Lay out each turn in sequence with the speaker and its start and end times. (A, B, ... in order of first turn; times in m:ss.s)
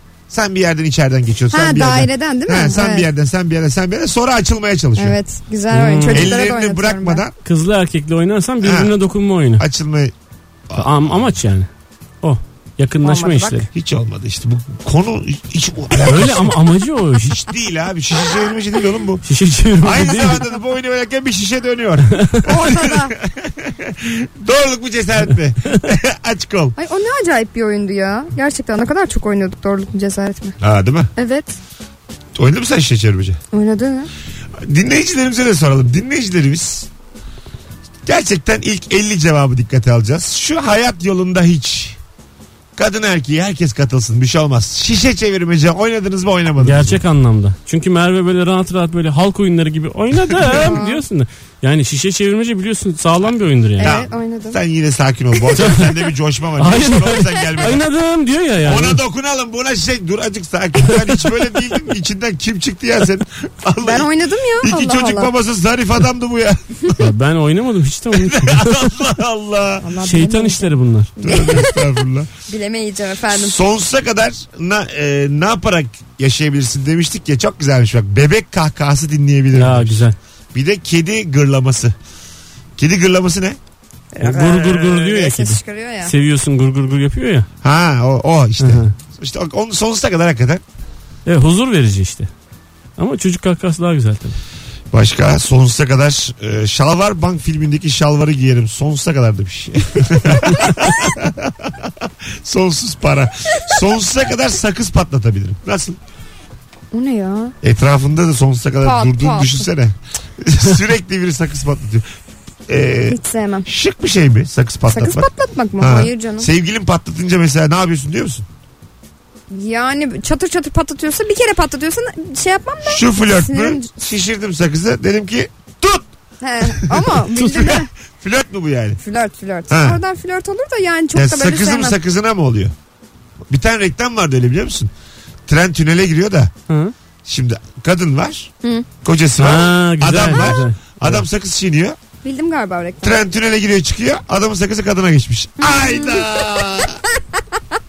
0:00.3-0:05.2 A
0:01.5-0:03.1 B
0:05.0-0:07.2 B
0:05.7-0:06.3 C
0:06.1-0:07.3 A
0:07.4-0:09.6 C
0:08.6-0:08.9 A
0:09.6-0:10.1 A
0:10.7-0:11.7 C
0:12.2-0:13.7 C
0:13.0-0:13.6 B
0:13.7-0:16.5 A
0:16.0-0:17.4 C
0:17.2-0:19.2 A
0:19.3-0:20.4 C
0:19.8-0:26.8 A
0:22.1-0:22.4 C
0:22.4-0:23.2 B
0:26.8-0:30.6 B
0:30.6-0:31.1 A
0:31.2-0:31.6 B
0:32.3-0:33.4 A
0:33.5-0:34.1 B
0:34.6-0:36.9 A
0:38.0-0:42.0 A
0:42.8-0:47.0 A
0:46.6-0:53.9 C
0:50.3-0:50.8 A
0:50.4-0:51.0 B
0:53.8-0:57.8 A
0:53.8-0:54.6 B
0:55.6-0:55.9 C
0:56.6-0:59.0 C
0:58.6-1:07.1 A
1:03.8-1:05.3 B
1:07.0-1:08.9 C
1:08.1-1:09.8 A
1:09.8-1:11.9 B
1:10.0-1:11.1 C
1:11.2-1:12.3 A
1:12.5-1:13.6 B
1:13.3-1:22.0 A
1:19.5-1:20.2 C
1:22.8-1:23.6 A
1:24.1-1:26.1 B
1:24.2-1:27.5 C
1:27.6-1:30.6 A
1:28.6-1:28.9 C
1:31.2-1:32.3 C
1:33.0-1:34.4 C
1:34.9-1:46.0 A
1:46.9-1:47.5 B
1:47.6-1:52.0 A
1:48.8-1:49.7 B
1:52.7-1:55.3 A
1:53.1-1:53.6 B
1:54.9-1:56.5 B
1:55.8-1:58.4 A
1:59.5-2:03.9 B
2:02.8-2:06.1 A
2:06.4-2:07.9 B
2:06.7-2:09.0 A
2:09.0-2:12.0 B
2:09.7-2:10.0 A
2:11.1-2:12.7 A
2:13.5-2:14.9 A
2:15.5-2:16.5 A
2:16.7-2:16.9 C
2:17.2-2:18.5 A
2:19.0-2:22.0 A
2:19.4-2:21.2 C
2:22.2-2:23.2 B
2:23.0-2:27.0 A
2:25.6-2:26.4 B